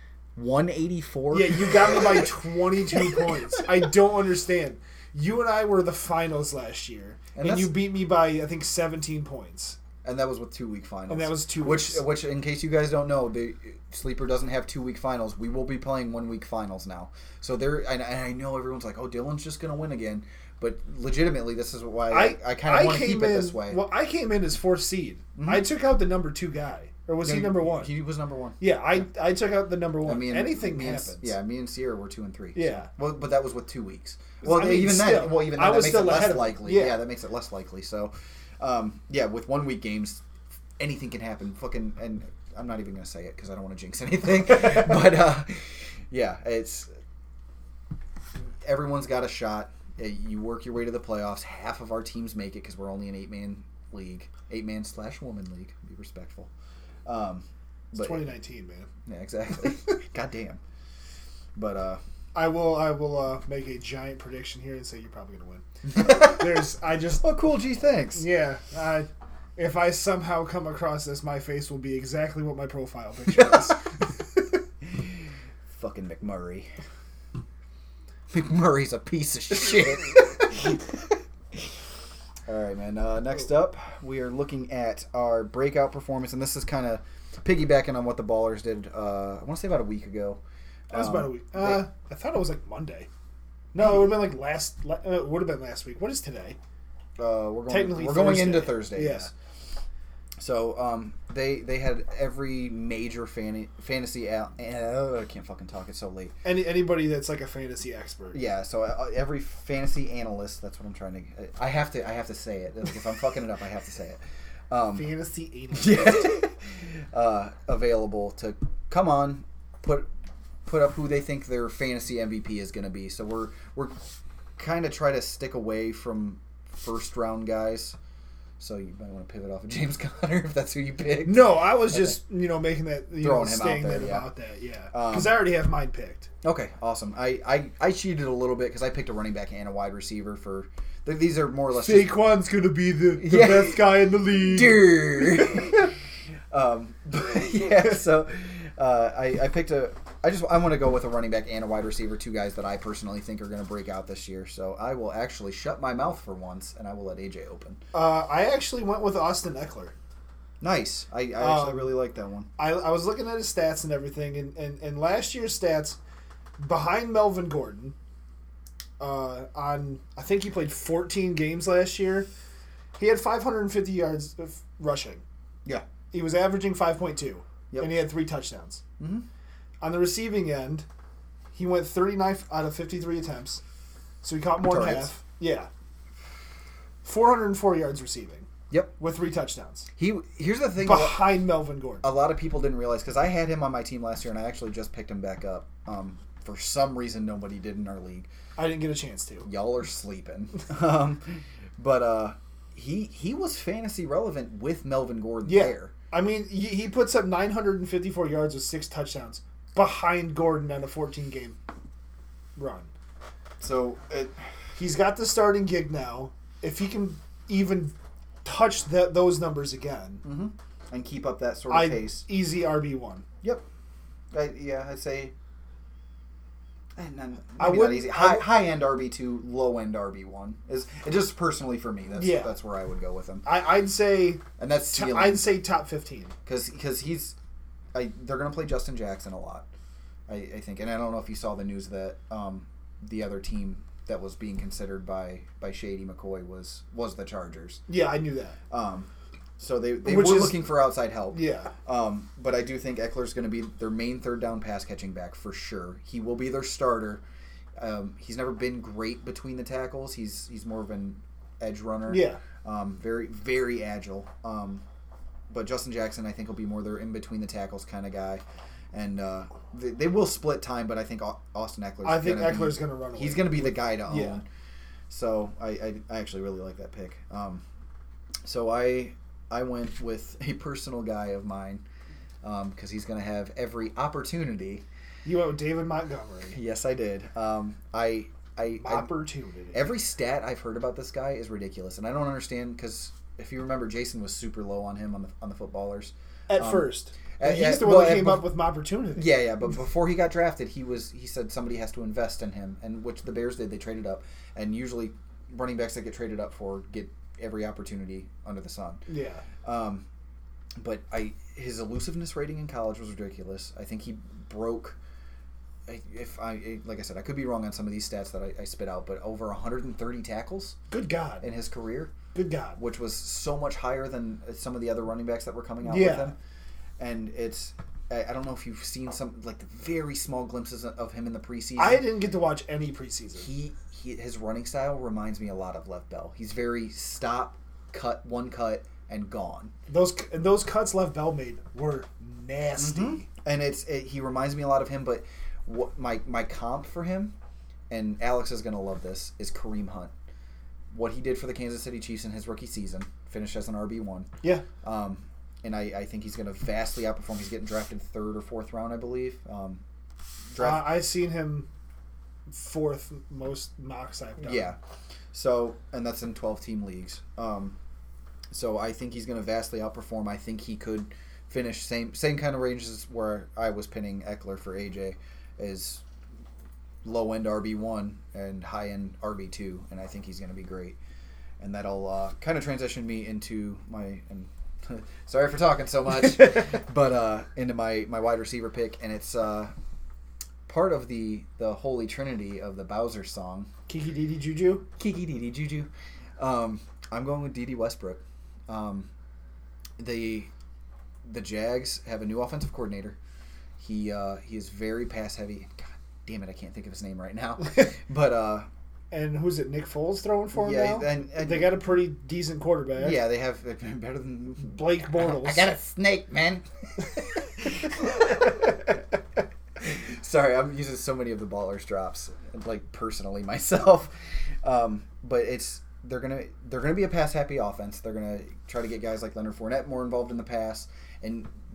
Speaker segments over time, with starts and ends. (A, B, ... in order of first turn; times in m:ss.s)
0:00.4-0:02.4 A
0:01.3-0:09.8 B
0:02.9-0:03.7 A
0:07.4-0:07.8 A
0:10.0-0:23.8 A
0:11.1-0:12.1 B
0:22.1-0:27.9 B
0:25.4-0:25.7 A
0:27.2-0:29.0 A
0:28.6-0:31.3 B
0:30.0-0:40.2 A
0:32.6-0:32.9 B
0:34.4-0:37.0 B
0:40.8-0:46.9 A
0:48.6-0:56.5 A
0:57.1-0:58.3 A
0:57.9-0:58.9 B
0:59.1-1:00.6 A
1:01.6-1:02.0 A
1:02.4-1:07.3 B
1:05.9-1:06.6 A
1:07.2-1:08.2 A
1:08.2-1:14.1 B
1:14.8-1:15.1 A
1:15.7-1:16.7 A
1:18.3-1:21.1 A
1:22.5-1:31.9 A
1:30.9-1:33.1 B
1:33.7-1:36.6 B
1:33.8-1:34.1 A
1:37.2-1:39.3 A
1:37.7-1:39.3 B
1:40.4-1:46.4 A
1:46.4-1:48.4 B
1:48.3-1:54.2 A
1:54.7-1:55.1 A
1:55.0-1:56.3 B
1:55.7-2:00.1 A
2:00.7-2:04.0 A
2:04.6-2:08.0 A
2:08.6-2:12.2 A
2:11.2-2:16.3 B
2:13.2-2:14.3 A
2:14.9-2:15.5 A
2:16.4-2:22.2 A
2:21.8-2:25.6 B
2:23.2-2:25.9 A
2:26.5-2:37.8 A
2:37.9-2:40.0 B
2:40.6-2:42.5 A
2:41.4-2:41.9 B
2:42.6-2:46.0 B
2:46.6-2:48.0 B
2:49.0-2:52.3 B
2:53.0-2:55.2 B
2:56.1-2:58.8 B
2:59.0-2:59.3 A
2:59.8-3:00.9 B
3:01.5-3:03.6 B
3:04.2-3:05.7 B
3:04.6-3:05.1 A
3:07.0-3:09.9 B
3:10.0-3:11.4 A
3:10.8-3:12.1 B
3:12.0-3:18.3 A
3:18.6-3:19.5 B
3:19.4-3:25.9 A
3:25.4-3:31.6 B
3:32.6-3:32.9 B
3:33.6-3:34.4 A
3:34.8-3:40.2 B
3:40.2-3:42.2 A
3:41.7-3:43.3 B
3:44.3-3:45.3 A
3:47.0-3:53.5 A
3:47.6-3:48.5 B
3:52.2-3:52.5 B
3:53.4-3:56.3 B
3:54.6-3:55.5 A
3:56.5-3:57.4 A
3:57.9-3:59.7 A
4:00.3-4:07.8 A
4:07.9-4:08.6 B
4:08.7-4:17.2 A
4:10.0-4:10.6 B
4:11.3-4:11.7 B
4:17.8-4:24.8 A
4:22.1-4:22.4 B
4:25.5-4:28.4 A
4:28.9-4:34.5 A
4:32.0-4:34.4 B
4:35.1-4:37.6 A
4:38.4-4:41.8 A
4:42.4-4:44.8 A
4:45.2-4:46.6 B
4:46.5-4:49.1 A
4:48.8-4:49.8 B
4:49.7-4:58.5 A
4:56.5-4:59.3 B
4:59.2-5:09.0 A
5:09.1-5:09.4 B
5:09.6-5:10.1 A
5:10.8-5:15.0 A
5:15.9-5:20.8 A
5:20.9-5:21.5 B
5:21.4-5:22.1 A
5:22.3-5:22.8 B
5:22.8-5:26.4 A
5:25.8-5:26.4 B
5:27.0-5:32.0 A
5:31.8-5:33.5 B
5:33.4-5:39.7 A
5:39.9-5:43.3 B
5:42.8-5:47.4 A
5:47.9-5:50.1 A
5:50.9-5:54.3 A
5:54.8-5:59.8 A
6:00.5-6:01.0 A
6:00.6-6:01.7 B
6:02.5-6:04.7 B
6:04.4-6:04.8 A
6:05.3-6:07.8 A
6:08.5-6:16.0 A
6:17.0-6:21.0 A
6:21.6-6:29.7 A
6:30.7-6:33.7 A
6:33.9-6:34.9 B
6:35.0-6:39.1 A
6:40.0-6:40.5 A
6:41.2-6:43.2 A
6:43.8-6:48.7 A
6:49.1-6:53.2 B
6:50.5-6:51.8 A
6:53.0-6:59.0 A
6:54.7-6:55.7 B
6:59.8-7:04.1 A
7:04.6-7:11.5 A